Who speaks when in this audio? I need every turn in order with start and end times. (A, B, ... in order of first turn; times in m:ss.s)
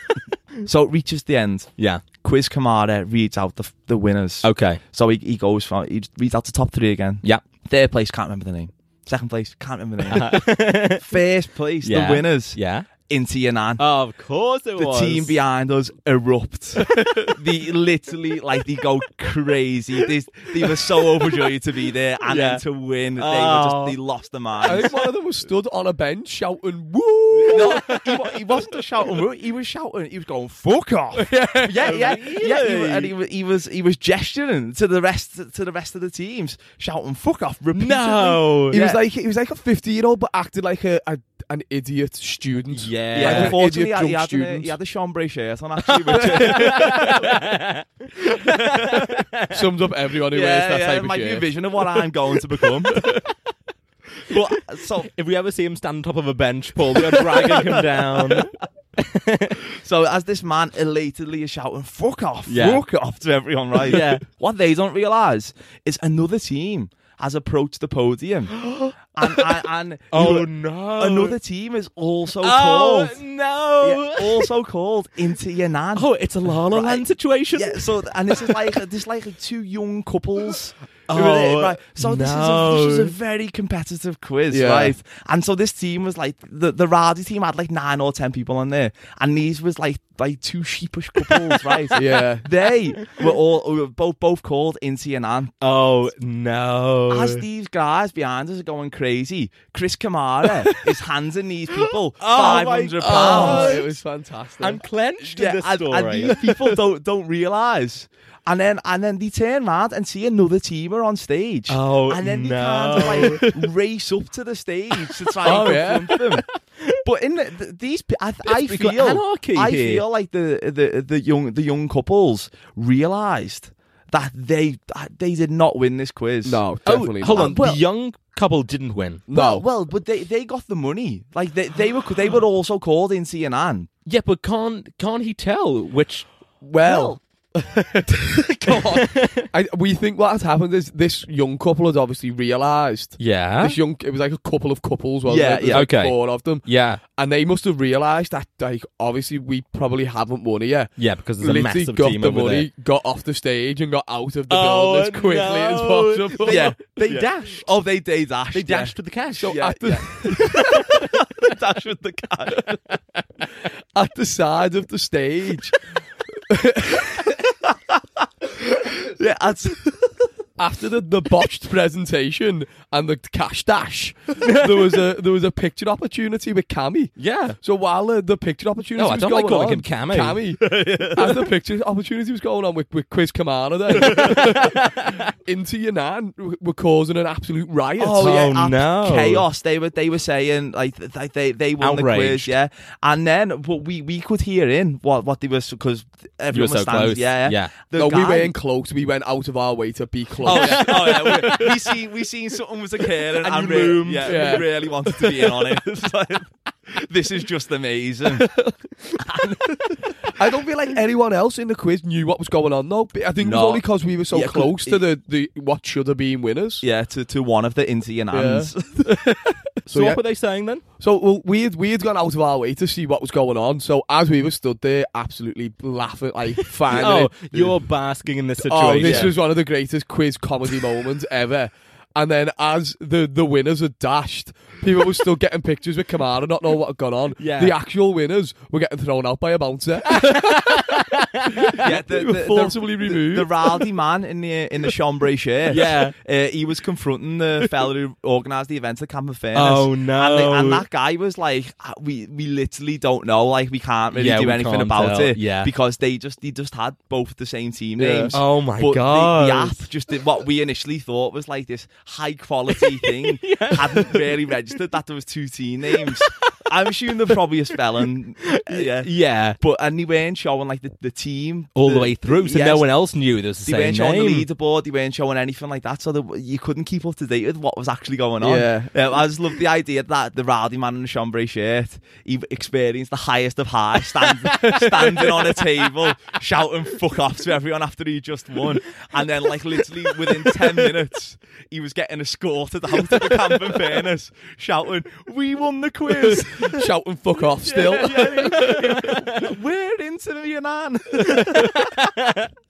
0:00.6-0:13.8 A
0:01.8-0:02.0 B
0:04.4-0:04.8 B
0:10.1-0:11.1 B
0:11.8-0:12.9 B
0:13.8-0:15.4 B
0:14.8-0:25.0 A
0:22.2-0:22.6 B
0:23.1-0:24.0 B
0:24.6-0:28.0 C
0:27.4-0:28.0 B
0:27.5-0:39.0 A
0:31.2-0:31.9 C
0:31.8-0:33.1 B
0:37.8-0:38.8 B
0:38.7-0:44.7 C
0:42.7-0:43.6 B
0:43.1-0:47.2 A
0:45.9-0:49.6 B
0:46.2-0:47.0 C
0:48.6-0:49.0 A
0:49.5-0:51.5 C
0:50.3-0:53.0 A
0:54.3-0:55.1 A
0:55.0-0:59.6 B
0:57.1-0:58.5 A
0:59.7-1:08.6 A
1:02.5-1:02.8 B
1:03.8-1:04.2 B
1:08.6-1:09.0 B
1:09.1-1:13.2 A
1:10.1-1:11.4 B
1:12.4-1:14.5 B
1:13.8-1:35.5 A
1:16.0-1:18.7 B
1:21.1-1:23.1 B
1:24.5-1:25.0 C
1:31.3-1:31.9 B
1:31.9-1:32.5 C
1:35.6-1:37.4 B
1:37.1-1:43.8 A
1:42.2-1:43.9 B
1:43.0-1:44.8 C
1:44.6-1:46.4 B
1:45.2-1:56.5 A
1:51.7-1:53.6 B
1:53.2-1:53.5 C
1:55.3-1:55.8 B
1:55.4-1:56.3 C
1:57.0-2:06.6 A
1:58.4-2:00.0 B
2:06.4-2:07.6 C
2:06.8-2:09.2 B
2:07.2-2:07.8 A
2:09.3-2:09.6 C
2:09.3-2:13.9 A
2:14.1-2:16.3 B
2:16.6-2:36.7 C
2:16.8-2:17.2 A
2:18.8-2:19.5 B
2:23.2-2:23.8 B
2:25.2-2:25.9 A
2:25.7-2:27.0 B
2:31.0-2:32.7 B
2:34.5-2:37.7 B
2:36.4-2:42.8 A
2:38.5-2:39.8 B
2:39.4-2:40.6 C
2:40.4-2:41.1 B
2:43.9-2:45.8 C
2:46.5-2:47.3 C
2:49.0-2:50.2 A
2:50.6-3:08.3 C
2:54.4-2:55.0 B
2:57.2-2:57.6 B
2:59.0-3:00.6 B
3:00.6-3:01.4 A
3:04.0-3:05.3 B
3:08.0-3:18.5 A
3:08.2-3:09.4 B
3:11.8-3:12.5 B
3:16.5-3:17.7 B
3:18.0-3:21.8 C
3:20.4-3:21.7 B
3:20.4-3:28.6 A
3:23.4-3:24.6 B
3:24.2-3:25.6 C
3:28.4-3:28.7 C
3:29.2-3:30.1 A
3:30.3-3:36.8 C
3:33.4-3:35.0 A
3:36.8-3:39.1 A
3:38.3-3:40.2 C
3:39.9-3:40.8 B
3:41.0-3:47.8 C
3:46.9-3:49.4 B
3:48.6-4:01.1 C
3:49.0-3:49.4 A
3:57.4-3:57.8 B
4:00.1-4:02.0 B
4:01.6-4:03.7 C
4:01.8-4:32.9 A
4:05.6-4:06.1 B
4:09.6-4:10.9 B
4:14.1-4:15.7 B
4:18.0-4:18.4 C
4:18.3-4:19.9 B
4:22.8-4:24.4 B
4:26.1-4:26.4 B
4:28.6-4:29.6 B
4:31.8-4:34.5 B
4:33.6-4:56.9 A
4:38.4-4:38.9 C
4:56.6-4:58.9 C
4:57.6-5:02.1 A
4:58.1-4:59.5 B
5:01.3-5:02.5 B